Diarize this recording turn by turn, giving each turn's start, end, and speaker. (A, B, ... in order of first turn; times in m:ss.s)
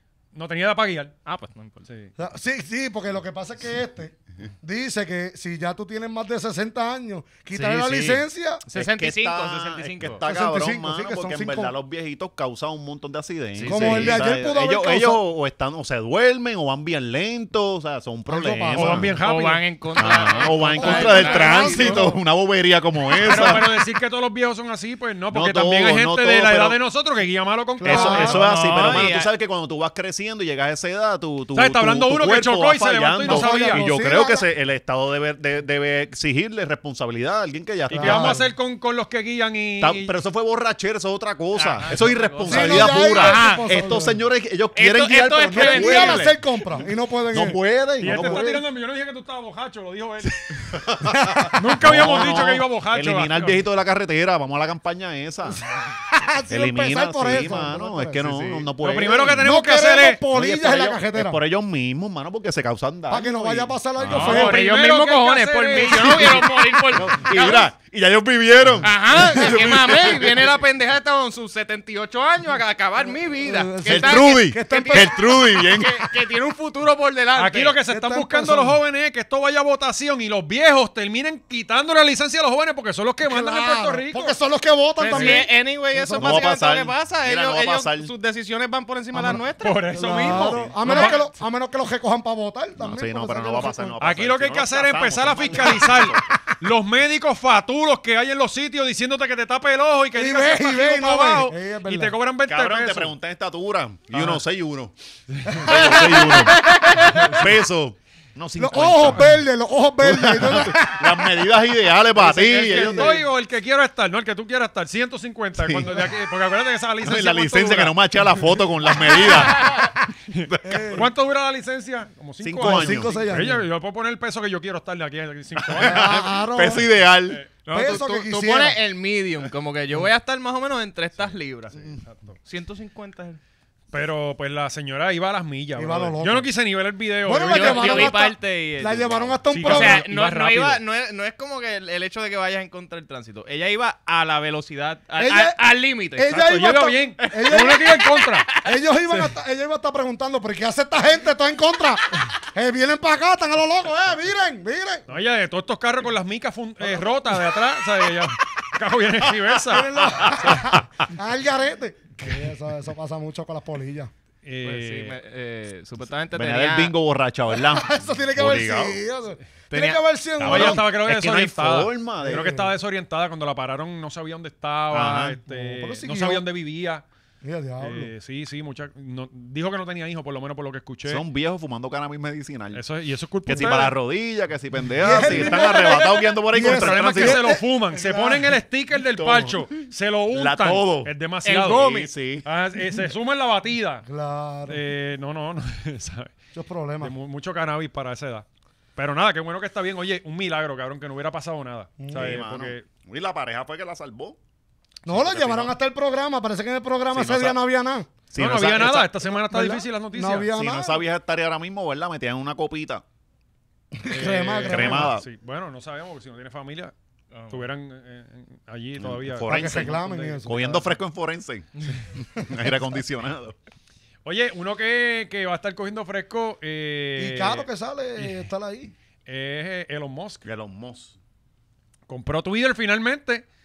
0:00.3-0:01.1 A
0:01.2-0:01.9 B
0:02.2-0:08.6 C
0:07.6-0:08.2 D
0:07.6-0:10.2 B
0:08.7-0:19.1 D
0:10.2-0:11.7 C
0:13.6-0:14.2 B
0:13.7-0:15.2 C
0:18.3-0:19.1 C
0:18.7-0:19.6 A
0:19.2-0:22.0 B
0:20.0-0:23.7 D
0:20.5-0:22.2 C
0:23.2-0:28.5 A
0:25.3-0:26.8 D
0:27.8-0:28.5 C
0:27.8-0:38.4 D
0:28.2-0:29.3 B
0:31.5-0:33.9 A
0:33.2-0:34.5 C
0:37.9-0:40.1 A
0:37.9-0:38.5 C
0:39.8-0:46.4 D
0:41.6-0:43.8 B
0:42.5-0:44.2 C
0:44.8-0:46.4 B
0:45.5-0:48.6 C
0:47.3-0:48.6 D
0:48.0-0:50.5 A
0:50.7-0:55.6 D
0:51.1-0:52.1 C
0:51.6-0:53.7 A
0:56.0-0:58.5 C
0:56.5-0:59.4 D
0:58.2-0:58.7 B
0:58.8-1:00.2 A
0:59.3-1:01.4 C
1:00.3-1:04.3 D
1:03.1-1:04.7 C
1:04.1-1:06.5 A
1:04.1-1:07.7 B
1:05.8-1:10.5 D
1:08.8-1:17.8 B
1:13.1-1:15.7 C
1:13.9-1:16.1 D
1:17.4-1:24.4 A
1:17.9-1:18.8 C
1:23.2-1:26.5 C
1:25.0-1:30.1 B
1:26.1-1:28.1 D
1:29.1-1:34.0 C
1:29.6-1:31.2 A
1:30.2-1:31.1 D
1:32.8-1:36.3 D
1:34.0-1:43.1 A
1:40.1-1:42.2 C
1:42.5-1:44.9 D
1:44.1-1:44.4 A
1:45.3-1:45.7 A
1:45.5-1:46.5 C
1:45.5-1:49.4 D
1:45.7-1:47.4 B
1:48.6-1:51.5 C
1:50.0-1:53.3 D
1:52.1-1:53.2 C
1:52.3-1:58.3 A
1:55.6-1:56.0 D
1:57.0-2:01.0 D
1:59.6-1:59.8 B
2:00.3-2:06.3 A
2:00.6-2:01.1 C
2:02.4-2:03.3 D
2:02.6-2:03.7 C
2:05.6-2:07.4 D
2:05.8-2:06.9 C
2:07.6-2:13.4 B
2:07.7-2:08.8 C
2:12.0-2:12.4 A
2:13.9-2:18.1 A
2:15.8-2:16.5 C
2:17.2-2:20.1 C
2:17.5-2:26.4 B
2:19.5-2:20.8 A
2:25.2-2:28.0 C
2:26.3-2:28.5 A
2:27.2-2:29.3 B
2:28.6-2:35.1 C
2:35.1-2:40.8 A
2:39.7-2:44.1 C
2:40.4-2:40.8 D
2:44.4-2:45.2 A
2:44.6-2:46.9 B
2:46.3-2:49.0 D
2:47.5-2:50.9 C
2:49.7-2:50.0 B
2:50.4-2:52.5 D
2:50.4-2:57.0 A
2:52.2-2:52.8 C
2:54.9-2:55.4 D
2:55.5-2:56.4 C
2:57.4-2:58.1 C
2:57.8-3:01.2 A
3:01.1-3:02.8 D
3:02.7-3:04.0 A
3:03.5-3:07.4 D
3:03.5-3:03.8 C
3:05.0-3:08.6 C
3:05.2-3:05.6 A
3:06.5-3:11.9 A
3:09.2-3:09.7 D
3:10.3-3:11.1 D
3:11.4-3:12.1 B
3:11.8-3:12.5 D
3:12.4-3:14.1 A
3:14.1-3:14.8 C
3:14.7-3:16.3 A
3:16.5-3:17.1 C
3:17.0-3:22.9 A
3:22.0-3:22.5 C
3:22.1-3:24.4 D
3:25.0-3:28.1 C
3:25.1-3:25.8 D
3:27.1-3:27.6 D
3:28.3-3:29.1 D
3:28.4-3:30.5 A
3:29.3-3:31.0 C
3:30.5-3:33.0 D
3:33.9-3:35.2 C
3:34.0-3:36.9 A
3:34.7-3:35.3 D
3:37.3-3:37.7 B
3:37.5-3:39.9 A
3:39.0-3:43.6 D
3:39.4-3:41.0 C
3:44.2-3:48.4 A
3:47.2-3:48.9 C
3:49.3-3:50.5 A
3:50.4-3:51.2 D
3:52.1-3:53.4 A